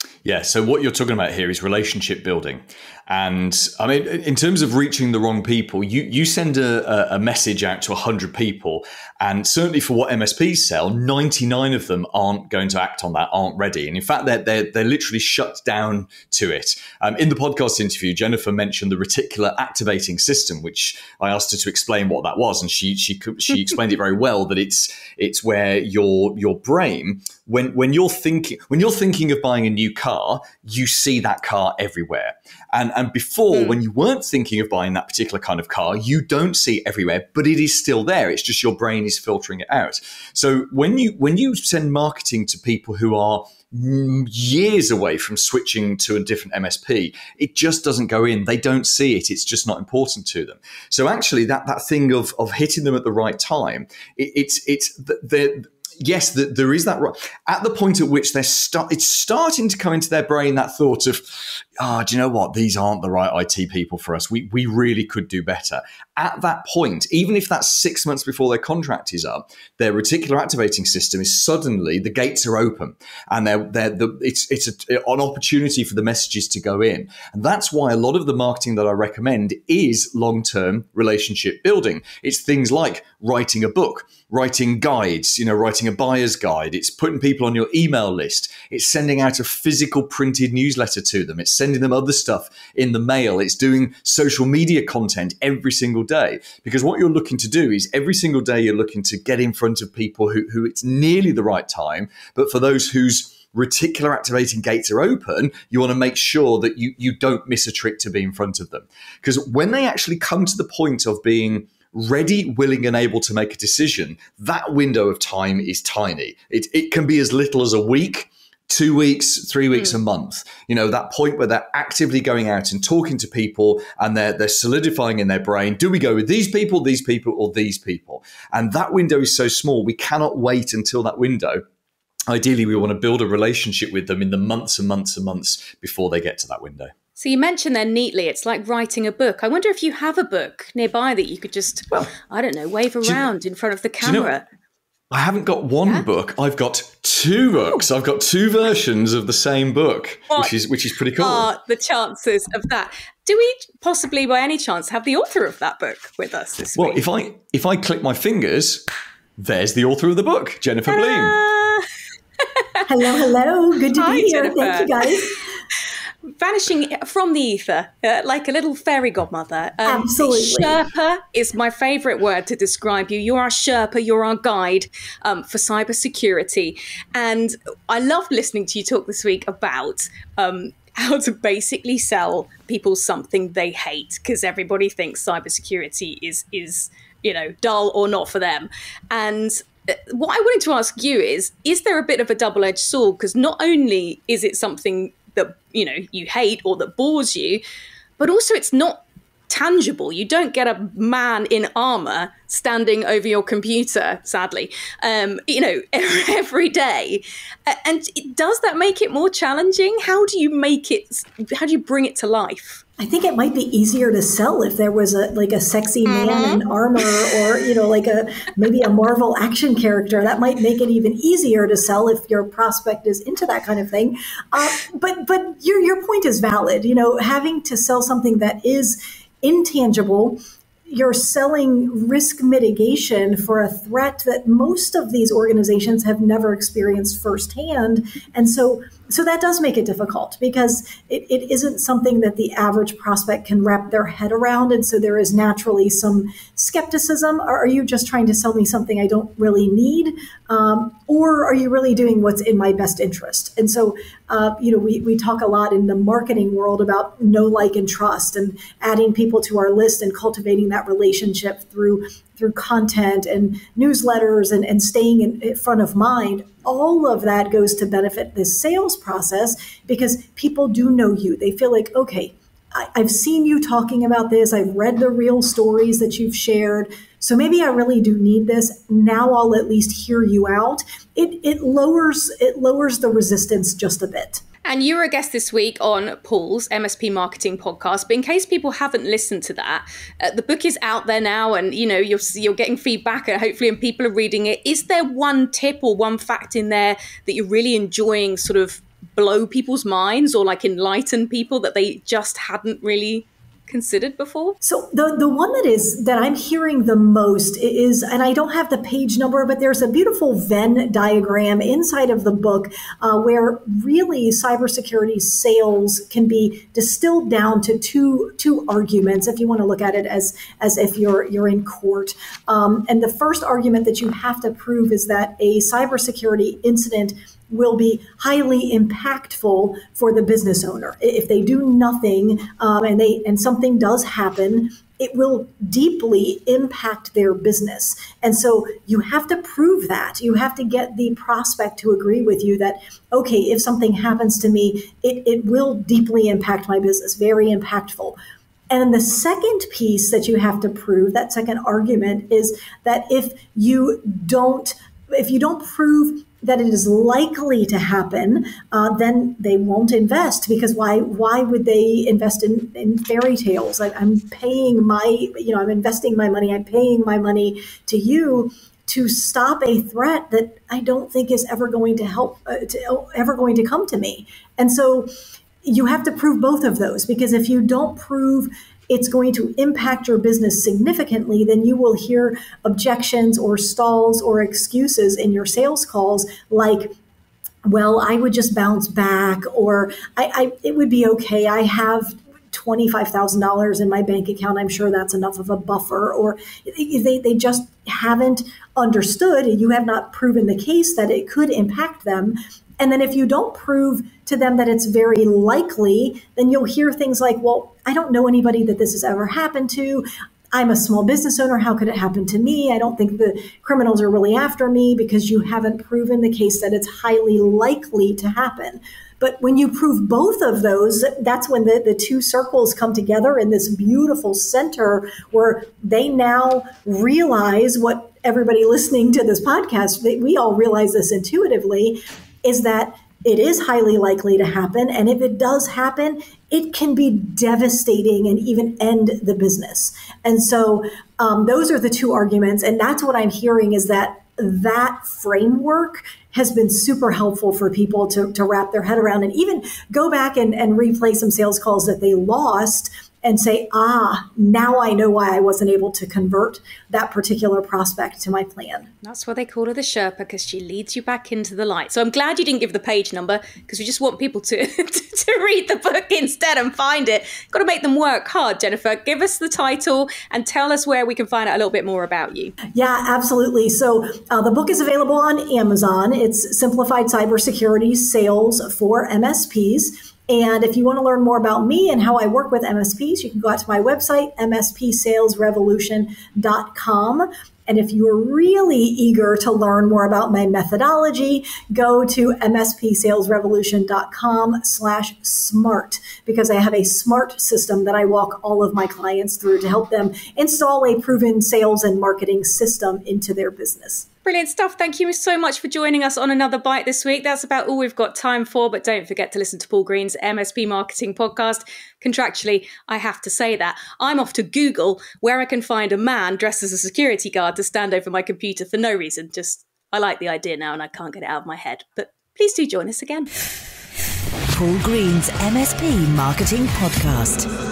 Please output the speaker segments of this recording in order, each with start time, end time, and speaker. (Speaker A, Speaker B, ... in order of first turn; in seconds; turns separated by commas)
Speaker A: 0.2-131.6, Speaker B: 33.5-33.8, Speaker A: 132.3-136.9, Speaker B: 137.2-144.4, Speaker A: 144.0-144.3, Speaker A: 145.1-151.5, Speaker B: 151.2-157.0, Speaker A: 156.8-158.8, Speaker A: 159.4-161.4, Speaker B: 160.9-161.8, Speaker C: 162.9-165.4, Speaker B: 164.0-164.9, Speaker B: 166.3-197.6, Speaker C: 169.8-170.8, Speaker B: 198.2-212.8, Speaker C: 213.0-230.4, Speaker B: 216.1-216.6, Speaker C: 230.9-284.4, Speaker B: 284.6-304.6, Speaker C: 304.6-348.2, Speaker C: 348.7-375.1, Speaker C: 375.6-386.9, Speaker C: 387.7-458.9, Speaker B: 459.0-472.5, Speaker C: 472.7-504.1, Speaker B: 504.2-523.3, Speaker D: 524.5-527.5